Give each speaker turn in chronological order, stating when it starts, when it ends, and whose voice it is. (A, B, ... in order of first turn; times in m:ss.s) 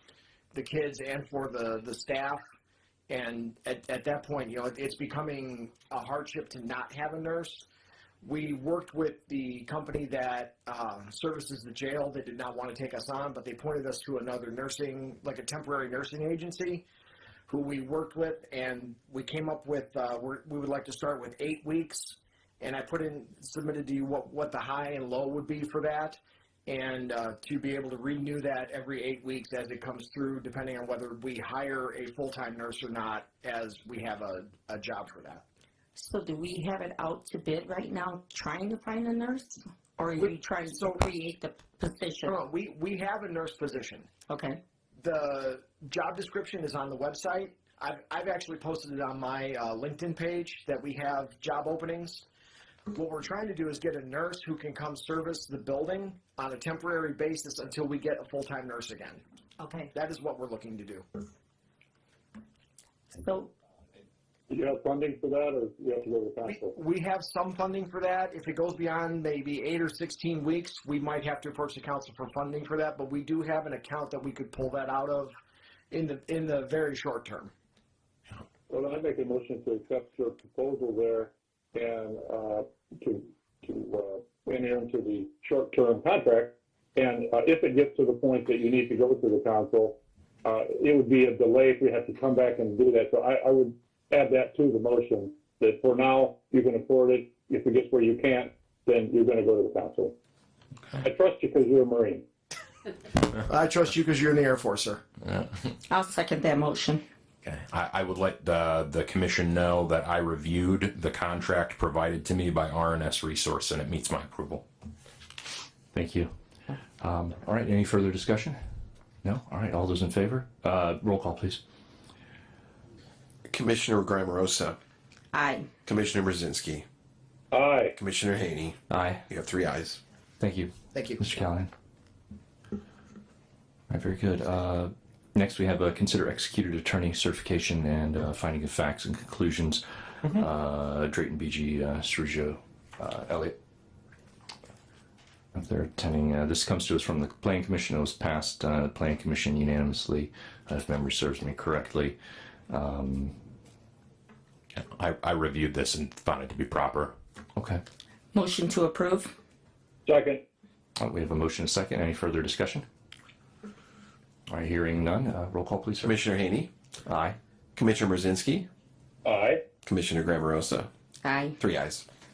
0:00.5-0:02.4 A
0:03.1-0:07.6 A
0:08.2-0:16.8 A
0:17.5-0:35.4 A
0:36.0-0:42.3 B
0:40.2-0:41.0 A
0:42.2-0:44.1 A
0:44.3-0:44.6 B
0:45.0-0:52.2 A
0:52.9-0:59.2 A
0:59.6-0:59.9 B
0:59.9-1:01.0 A
1:03.1-1:03.5 B
1:04.5-1:06.7 C
1:06.4-1:15.3 A
1:15.9-1:17.5 A
1:18.7-1:40.1 C
1:41.0-1:42.2 C
1:43.4-1:45.0 A
1:45.9-1:47.0 B
1:47.4-1:54.6 D
1:55.9-1:56.3 E
1:57.0-1:58.6 E
1:59.2-2:01.6 E
2:03.5-2:04.8 F
2:05.3-2:05.7 B
2:05.8-2:06.8 F
2:07.5-2:07.9 C
2:08.0-2:08.8 F
2:08.9-2:09.3 E
2:09.3-2:10.0 F
2:10.4-2:11.7 E
2:10.9-2:11.2 A
2:13.9-2:23.5 E
2:25.5-2:32.2 E
2:32.7-2:33.4 E
2:34.7-2:37.1 D
2:37.6-2:37.8 E
2:38.3-2:39.3 B
2:40.0-2:40.4 C
2:41.0-2:42.8 E
2:44.5-2:46.2 E
2:46.0-2:46.7 F
2:47.0-2:47.4 E
2:47.8-2:48.6 F
2:49.2-2:49.6 C
2:49.8-2:50.9 F
2:51.2-2:51.6 B
2:51.6-2:52.0 F